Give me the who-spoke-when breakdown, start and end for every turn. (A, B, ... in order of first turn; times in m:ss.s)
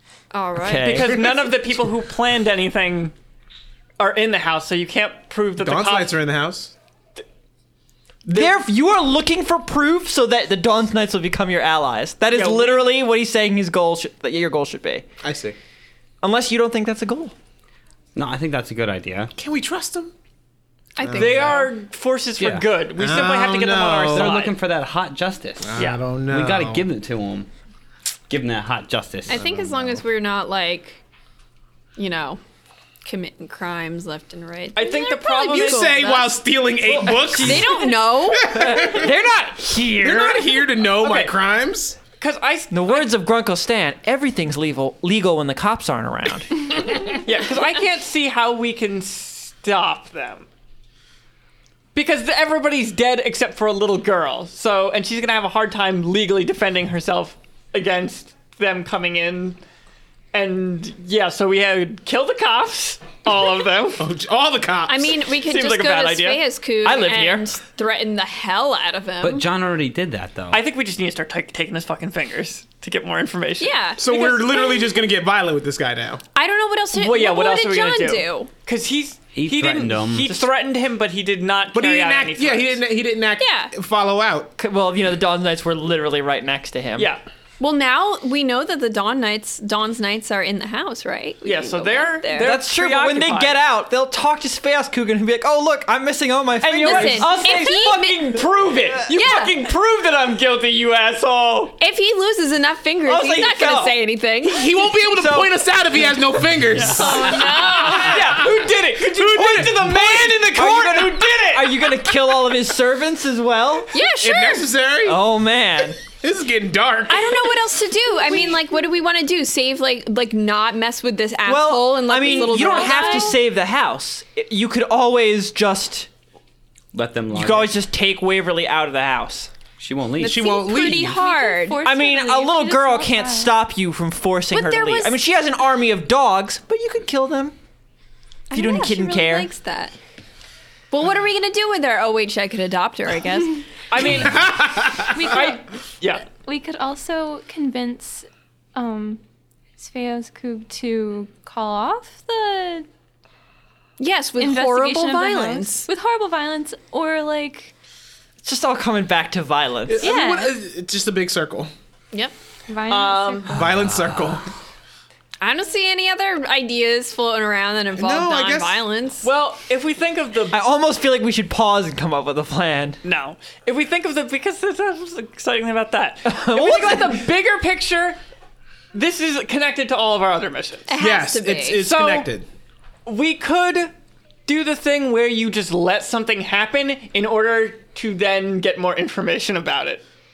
0:00.3-0:01.1 A
0:00.6-0:01.2 B
0:00.8-0:01.7 C
0:00.8-0:03.1 D
0:04.0-0:06.2 D
0:05.6-0:06.7 C
0:08.3-0:15.1 B
0:12.3-0:12.9 D
0:15.2-0:15.6 C
0:16.2-0:17.3 B
0:18.2-0:19.3 E
0:19.4-0:20.1 C
0:21.0-0:21.7 A
0:21.0-0:21.6 C
0:21.1-0:24.5 D
0:22.4-0:22.7 E
0:23.0-0:24.4 C
0:24.1-0:27.5 E
0:25.6-0:26.9 C
0:25.8-0:26.0 D
0:28.3-0:29.4 E
0:29.3-0:31.0 A
0:29.4-0:30.0 C
0:32.0-0:32.4 A
0:33.0-0:36.4 A
0:34.8-0:36.2 D
0:35.4-0:39.1 C
0:36.8-0:37.7 B
0:37.1-0:38.8 A
0:38.4-0:40.7 B
0:39.8-0:42.0 C
0:40.9-0:41.4 D
0:42.2-0:43.2 D
0:42.7-0:46.8 B
0:47.1-0:50.5 D
0:52.0-0:59.6 D
1:00.3-1:04.0 D
1:04.0-1:05.2 C
1:04.9-1:09.5 A
1:05.5-1:06.4 D
1:06.8-1:07.5 B
1:09.2-1:10.6 E
1:10.5-1:13.8 D
1:13.6-1:15.1 A
1:14.0-1:16.2 C
1:16.4-1:18.5 A
1:16.9-1:22.8 D
1:19.3-1:20.4 E
1:21.7-1:24.5 C
1:23.4-1:23.7 A
1:24.6-1:27.1 B
1:27.0-1:27.2 D
1:27.6-1:32.6 A
1:31.4-1:33.6 D
1:32.4-1:39.1 B
1:36.6-1:41.8 D
1:36.8-1:38.3 A
1:39.1-1:39.6 A
1:41.8-1:44.8 A
1:43.0-1:44.0 B
1:44.5-1:51.4 C
1:45.0-1:45.6 B
1:46.7-1:51.7 D
1:47.0-1:48.2 A
1:48.0-1:48.5 B
1:49.6-1:54.0 B
1:53.9-1:54.7 A
1:54.2-1:55.2 C
1:55.0-1:56.0 B
1:56.0-1:57.6 C
1:57.1-2:03.4 A
2:01.4-2:06.1 B
2:02.5-2:03.3 F
2:06.9-2:07.7 E
2:07.3-2:09.5 B
2:09.8-2:10.6 E
2:10.2-2:11.8 A
2:10.2-2:11.2 C
2:11.1-2:13.5 F
2:11.8-2:17.6 B
2:14.5-2:15.2 A
2:18.5-2:20.0 A
2:18.5-2:19.5 B
2:20.9-2:23.8 A
2:23.9-2:26.3 D
2:24.2-2:25.3 C
2:25.0-2:25.6 F
2:26.3-2:29.2 F
2:29.8-2:32.9 F
2:34.0-2:35.9 A
2:34.4-2:37.7 F
2:38.4-2:40.1 B
2:39.9-2:41.7 C
2:40.0-2:40.4 A
2:40.0-2:40.5 F
2:42.7-2:43.8 F
2:42.9-2:43.6 D
2:43.5-2:44.5 C
2:43.6-2:44.2 E
2:45.4-2:49.3 A
2:48.0-2:48.8 C
2:49.2-2:50.6 D
2:50.5-2:53.0 B
2:53.0-2:58.2 D
2:56.2-2:57.3 B
2:58.9-3:00.9 D
3:00.9-3:01.8 A
3:01.0-3:02.4 C
3:01.8-3:02.3 D
3:03.1-3:03.9 D
3:04.5-3:10.0 D